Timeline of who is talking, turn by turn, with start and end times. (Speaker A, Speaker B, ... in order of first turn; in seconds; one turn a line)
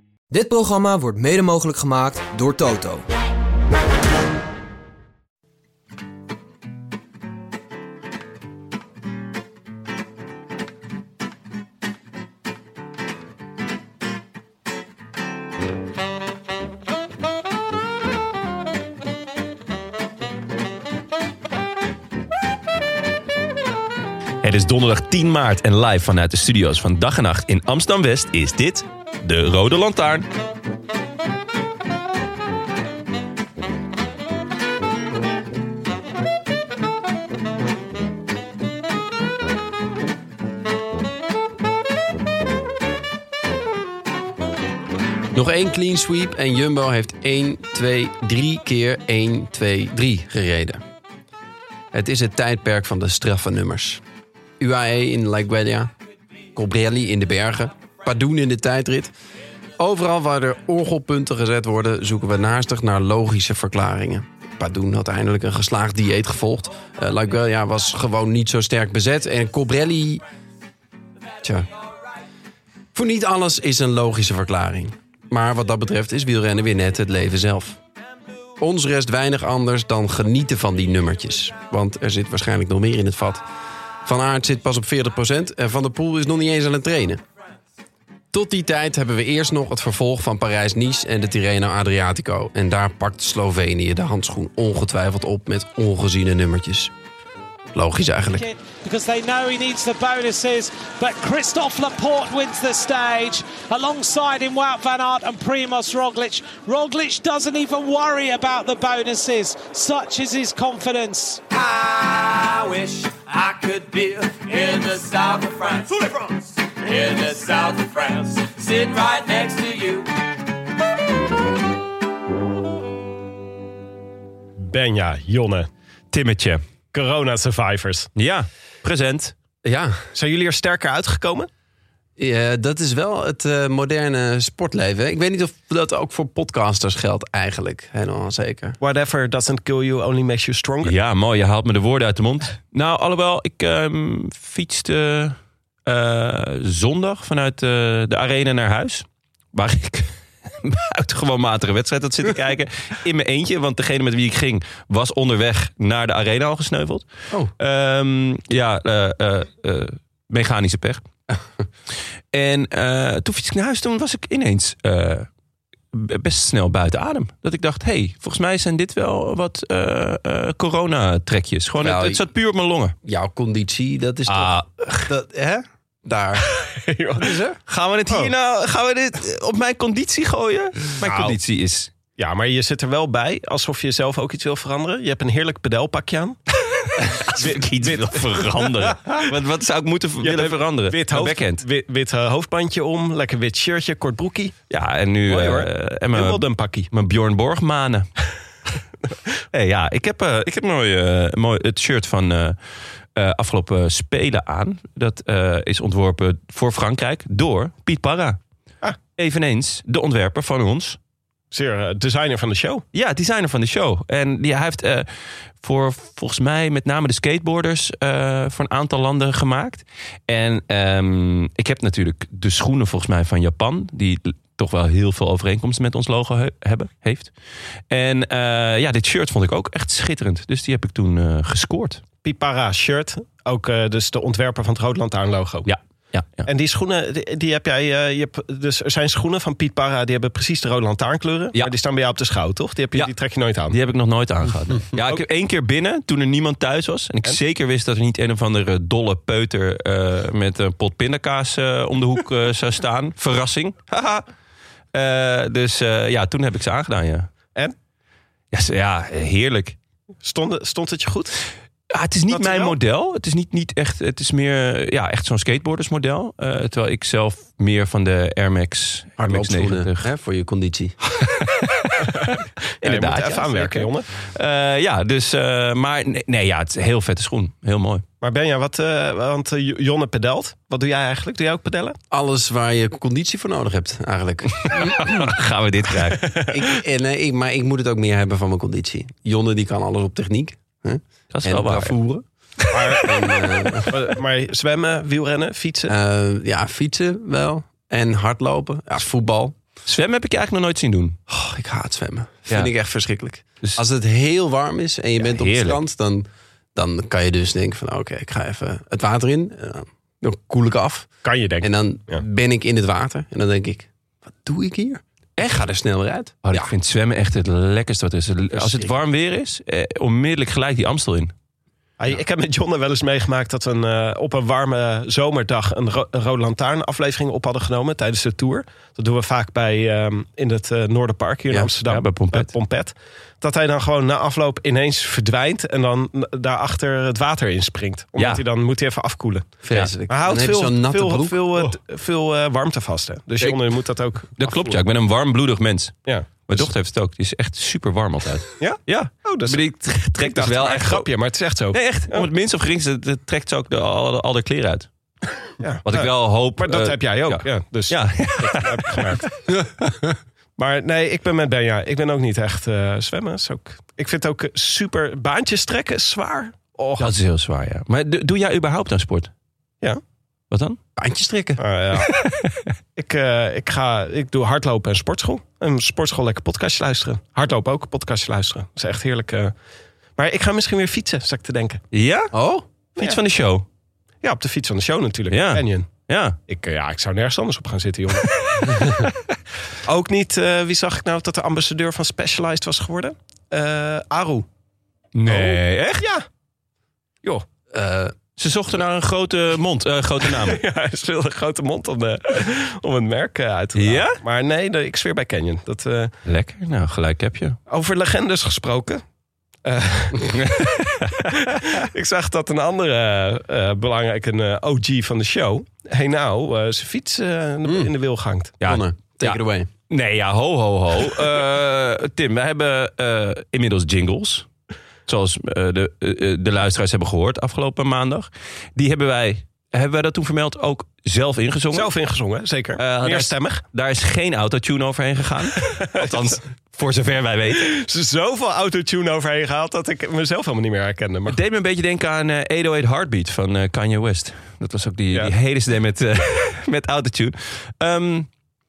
Speaker A: 0.3-3.0
Speaker B: 24.4-30.3
Speaker C: 45.3-50.8
Speaker C: 51.9-54.0
Speaker C: 54.6-55.9
Speaker C: 56.5-59.1
Speaker C: 59.8-70.2
Speaker C: 71.4-71.7
Speaker C: 72.9-77.8
Speaker C: 78.6-83.4
Speaker C: 84.0-87.2
Speaker C: 88.3-96.9
Speaker C: 97.7-98.5
Speaker D: 98.3-111.4
Speaker E: 111.5-120.1
Speaker F: 124.6-125.7
Speaker B: 126.1-126.6
Speaker F: 126.9-128.1
Speaker B: 128.2-129.3
Speaker C: 129.6-130.0
Speaker F: 130.1-131.5
Speaker C: 132.2-138.8
Speaker F: 138.8-140.9
Speaker B: 140.8-157.0
Speaker B: 157.6-161.0
Speaker B: 162.3-165.3
Speaker B: 165.9-172.9
Speaker C: 171.8-172.2
Speaker C: 173.0-176.6
Speaker B: 174.3-175.1
Speaker F: 176.5-177.3
Speaker C: 177.1-177.6
Speaker B: 177.7-181.9
Speaker F: 181.0-181.4
Speaker F: 182.2-186.4
Speaker F: 187.0-189.3
Speaker B: 187.1-191.6
Speaker F: 190.2-194.5
Speaker B: 194.7-198.1
Speaker F: 195.3-196.9
Speaker B: 199.5-202.6
Speaker B: 203.1-208.4
Speaker B: 209.2-211.0
Speaker F: 211.5-212.8
Speaker B: 212.9-215.1
Speaker B: 215.6-227.3
Speaker B: 227.9-232.0
Speaker F: 232.2-235.7
Speaker B: 235.6-236.5
Speaker F: 236.4-243.8
Speaker B: 243.7-254.2
Speaker F: 244.9-245.2
Speaker B: 254.9-257.3
Speaker B: 258.5-259.8
Speaker F: 260.2-261.4
Speaker B: 261.9-270.1
Speaker F: 262.3-262.8
Speaker C: 269.2-270.9
Speaker B: 271.1-278.0
Speaker F: 272.0-274.1
Speaker F: 278.2-282.0
Speaker C: 282.1-285.3
Speaker B: 284.6-286.4
Speaker F: 286.1-286.6
Speaker C: 286.5-292.2
Speaker B: 291.3-291.9
Speaker B: 292.7-293.0
Speaker F: 292.7-293.2
Speaker C: 293.0-294.0
Speaker F: 293.8-295.9
Speaker C: 295.9-299.6
Speaker B: 299.9-301.2
Speaker C: 301.3-311.1
Speaker B: 305.2-305.8
Speaker F: 311.2-312.2
Speaker C: 311.6-316.7
Speaker B: 316.4-321.3
Speaker C: 318.5-318.9
Speaker F: 322.0-339.5
Speaker B: 331.8-332.5
Speaker B: 338.2-338.4
Speaker C: 339.6-341.6
Speaker F: 340.1-344.3
Speaker B: 344.4-351.1
Speaker C: 344.4-344.7
Speaker F: 348.6-349.6
Speaker F: 350.2-352.3
Speaker B: 351.7-354.9
Speaker F: 355.6-359.2
Speaker B: 355.9-359.3
Speaker C: 359.6-360.1
Speaker F: 360.6-367.1
Speaker B: 367.0-369.3
Speaker B: 370.5-370.8
Speaker C: 370.9-371.6
Speaker F: 371.6-372.1
Speaker B: 372.0-372.7
Speaker F: 372.9-379.5
Speaker F: 380.2-381.8
Speaker B: 381.9-382.3
Speaker C: 382.3-382.6
Speaker B: 383.0-383.6
Speaker F: 384.2-385.9
Speaker B: 385.3-386.4
Speaker F: 386.5-388.9
Speaker B: 388.6-389.1
Speaker F: 389.8-394.4
Speaker B: 395.1-396.0
Speaker F: 395.3-396.2
Speaker C: 397.7-398.1
Speaker B: 398.4-400.6
Speaker F: 400.2-406.1
Speaker B: 403.7-404.2
Speaker B: 406.2-407.6
Speaker F: 407.7-409.0
Speaker F: 409.6-410.7
Speaker B: 410.3-411.7
Speaker F: 411.3-418.5
Speaker C: 417.6-417.9
Speaker B: 418.6-424.5
Speaker C: 418.6-419.7
Speaker B: 425.1-431.9
Speaker F: 431.7-433.6
Speaker B: 432.8-437.7
Speaker F: 435.6-436.4
Speaker F: 437.5-441.4
Speaker B: 441.3-448.3